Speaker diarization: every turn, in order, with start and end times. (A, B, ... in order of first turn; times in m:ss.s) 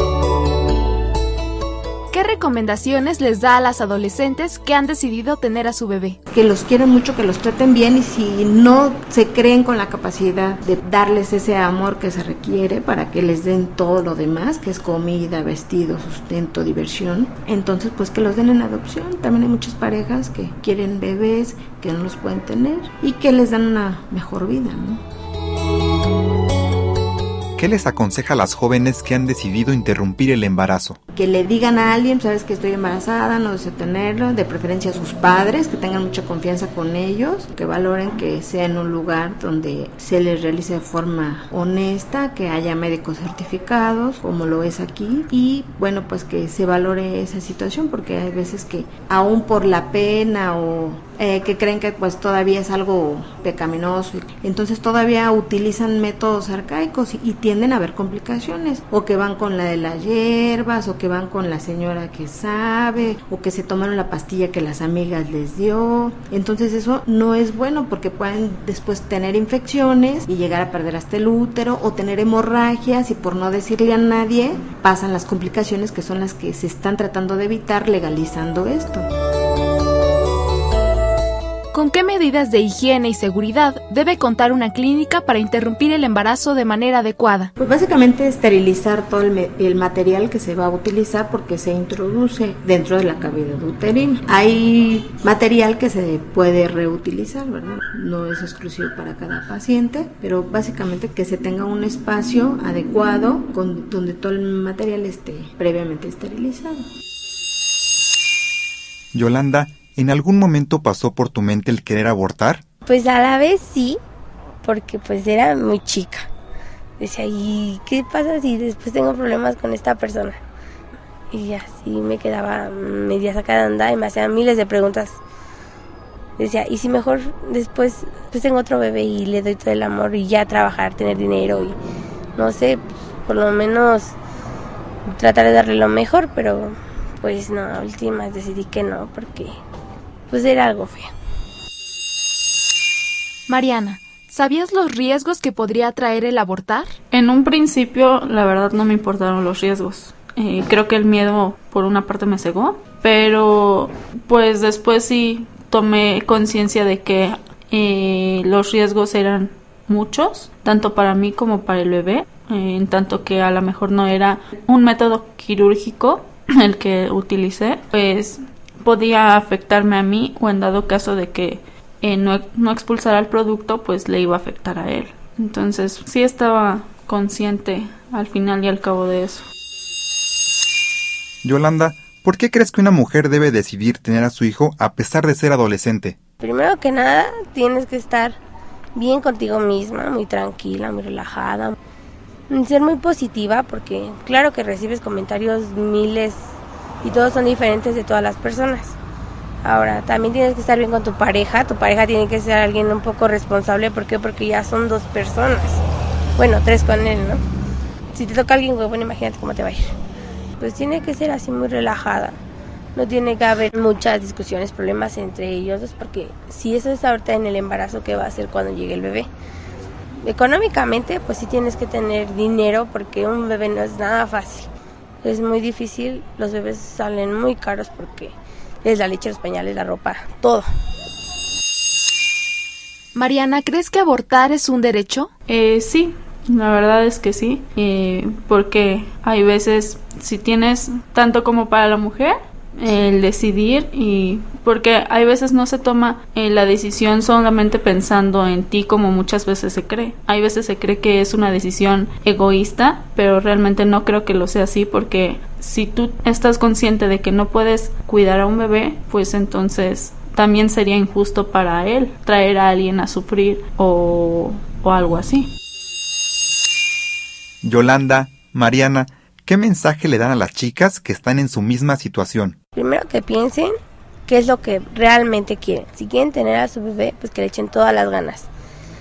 0:02.1-0:06.2 A
0:06.3-0:25.0 B
0:27.6-0:31.0 C
0:31.1-1:19.1 B
1:21.7-1:27.5 A
1:27.6-1:46.8 B
1:49.1-1:52.6 C
1:52.9-1:54.0 D
1:54.6-1:56.3 D
1:57.0-2:00.4 D
2:01.3-2:05.2 D
2:06.4-2:11.8 D
2:12.4-2:14.2 D
2:15.1-2:19.5 D
2:20.3-2:21.1 D
2:23.5-2:26.9 A
2:27.1-2:59.5 E
3:01.4-3:06.2 C
3:06.4-3:08.4 D
3:09.0-3:11.8 D
3:12.5-3:19.0 D
3:19.6-3:25.8 D
3:26.4-3:27.4 D
3:28.1-3:30.0 D
3:30.6-3:32.4 D
3:33.0-3:39.3 D
3:40.2-3:44.7 D
3:45.2-3:48.3 D
3:48.8-3:50.6 D
3:53.2-3:55.3 A
3:55.5-4:25.5 E
4:27.6-4:32.6 C
4:32.8-4:33.7 D
4:34.3-4:38.5 D